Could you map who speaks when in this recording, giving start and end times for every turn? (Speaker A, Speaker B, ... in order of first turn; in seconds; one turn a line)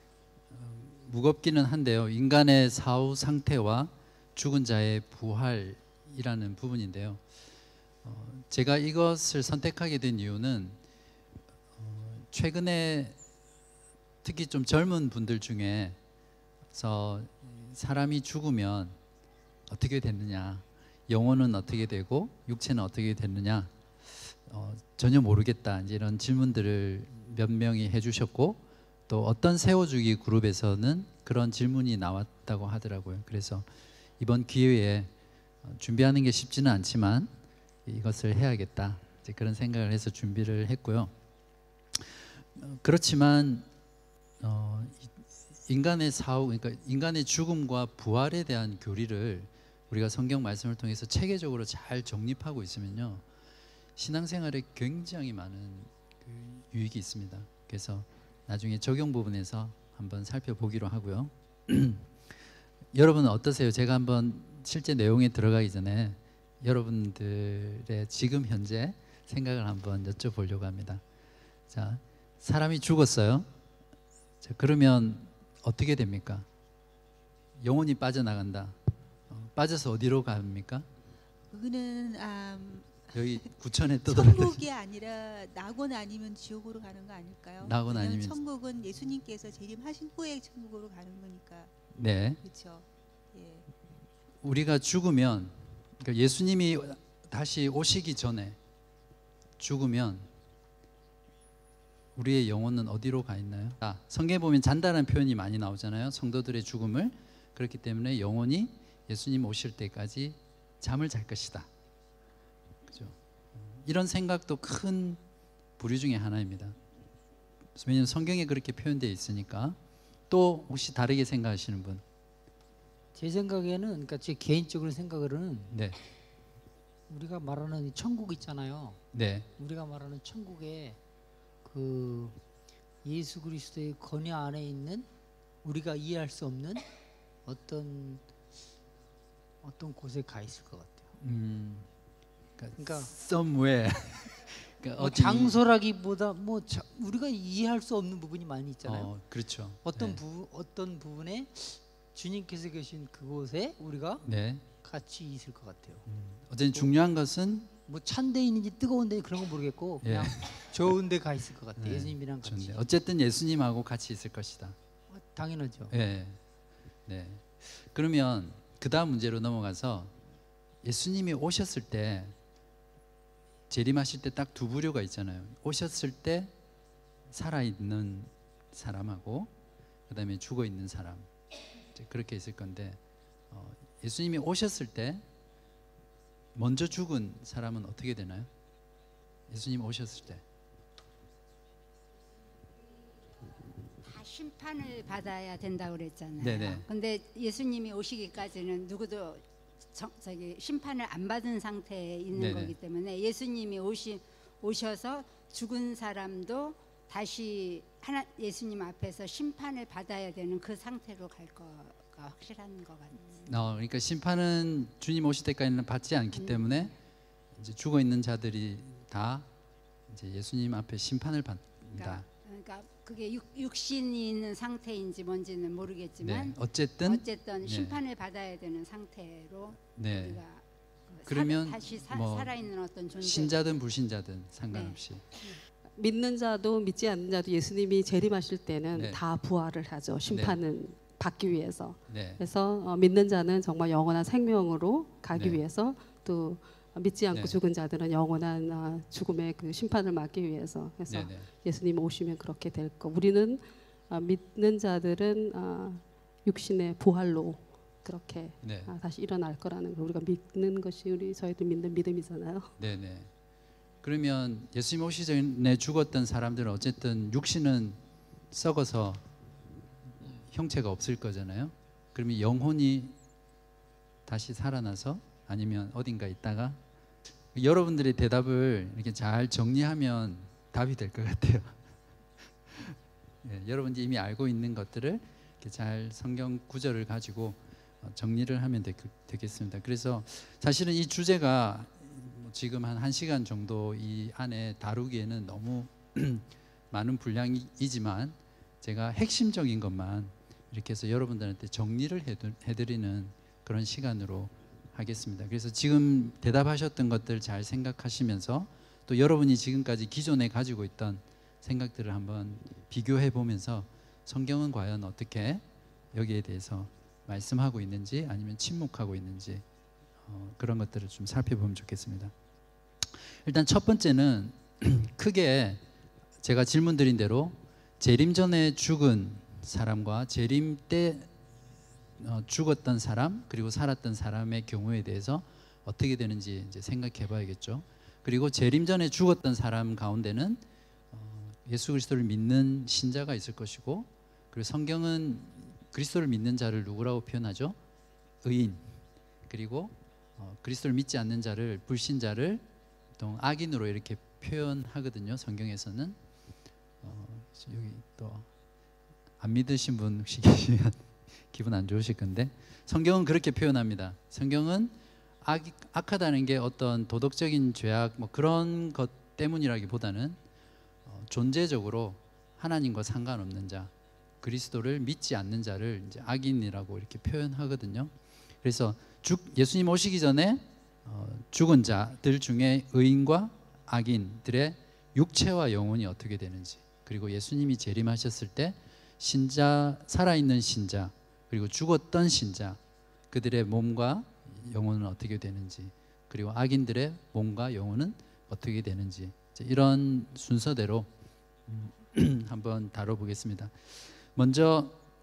Speaker A: 0.5-7.2
Speaker A: 8.0-10.8
Speaker A: 11.8-13.2
Speaker A: 14.2-16.0
Speaker A: 16.7-18.9
Speaker A: 19.7-23.7
Speaker A: 24.5-33.6
Speaker A: 34.2-35.1
Speaker A: 35.6-37.3
Speaker A: 37.9-41.1
Speaker A: 42.0-43.7
Speaker A: 44.4-45.1
Speaker A: 45.7-53.2
Speaker A: 54.0-62.1
Speaker A: 62.9-71.0
Speaker A: 71.7-73.5
Speaker A: 74.4-76.5
Speaker A: 77.6-78.8
Speaker A: 79.3-80.9
Speaker B: 81.5-83.5
Speaker A: 83.1-84.7
Speaker B: 84.1-91.7
Speaker A: 87.6-88.4
Speaker A: 92.0-92.4
Speaker B: 92.4-93.7
Speaker A: 94.4-98.6
Speaker A: 99.6-100.3
Speaker A: 102.2-111.7
Speaker A: 112.9-115.2
Speaker A: 115.8-116.8
Speaker A: 117.8-119.8
Speaker A: 120.3-122.0
Speaker C: 123.1-125.8
Speaker A: 125.7-126.0
Speaker C: 127.1-129.0
Speaker A: 129.1-129.5
Speaker C: 129.6-131.0
Speaker C: 131.6-132.4
Speaker C: 133.0-135.1
Speaker C: 135.6-136.8
Speaker C: 137.4-138.2
Speaker C: 139.6-141.1
Speaker A: 141.2-141.9
Speaker A: 142.6-145.6
Speaker C: 142.8-143.1
Speaker C: 145.0-149.1
Speaker A: 148.8-150.2
Speaker C: 149.8-154.3
Speaker A: 154.2-154.6
Speaker C: 154.8-156.1
Speaker A: 156.1-157.7
Speaker C: 157.9-162.8
Speaker A: 160.0-160.6
Speaker A: 161.8-164.8
Speaker C: 165.1-165.9
Speaker A: 165.9-166.4
Speaker A: 167.1-170.1
Speaker A: 170.8-172.3
Speaker A: 173.7-176.5
Speaker A: 177.3-179.5
Speaker A: 180.1-181.3
Speaker A: 181.9-183.0
Speaker A: 183.5-185.2
Speaker A: 186.6-188.5
Speaker A: 189.5-190.4
Speaker D: 193.9-213.5
Speaker A: 196.4-196.8
Speaker A: 202.3-202.7
Speaker A: 213.5-216.9
Speaker A: 217.6-219.5
Speaker A: 220.1-222.2
Speaker D: 222.0-233.6
Speaker A: 226.2-228.0
Speaker A: 230.0-230.4
Speaker A: 231.3-232.6
Speaker A: 233.2-235.2
Speaker D: 234.7-235.5
Speaker E: 236.0-262.7
Speaker A: 238.9-239.2
Speaker A: 240.3-240.6
Speaker A: 242.1-242.4
Speaker A: 245.3-245.6
Speaker A: 247.3-247.6
Speaker A: 251.1-251.5
Speaker A: 258.6-258.9
Speaker A: 262.8-263.3
Speaker A: 264.0-268.0
Speaker A: 268.5-269.2
Speaker A: 270.5-273.1
Speaker A: 274.3-276.8
Speaker A: 277.5-281.8
Speaker A: 282.7-319.6
Speaker A: 320.3-322.3
Speaker A: 323.4-325.8
Speaker A: 326.4-331.3
Speaker A: 332.2-347.8
Speaker A: 348.4-348.9
Speaker A: 349.5-352.6
Speaker A: 353.2-356.2
Speaker A: 357.0-358.5
Speaker A: 359.4-370.4
Speaker A: 371.1-373.9
Speaker A: 374.4-392.8
Speaker A: 393.3-401.1
Speaker A: 401.7-403.7
Speaker A: 404.3-405.0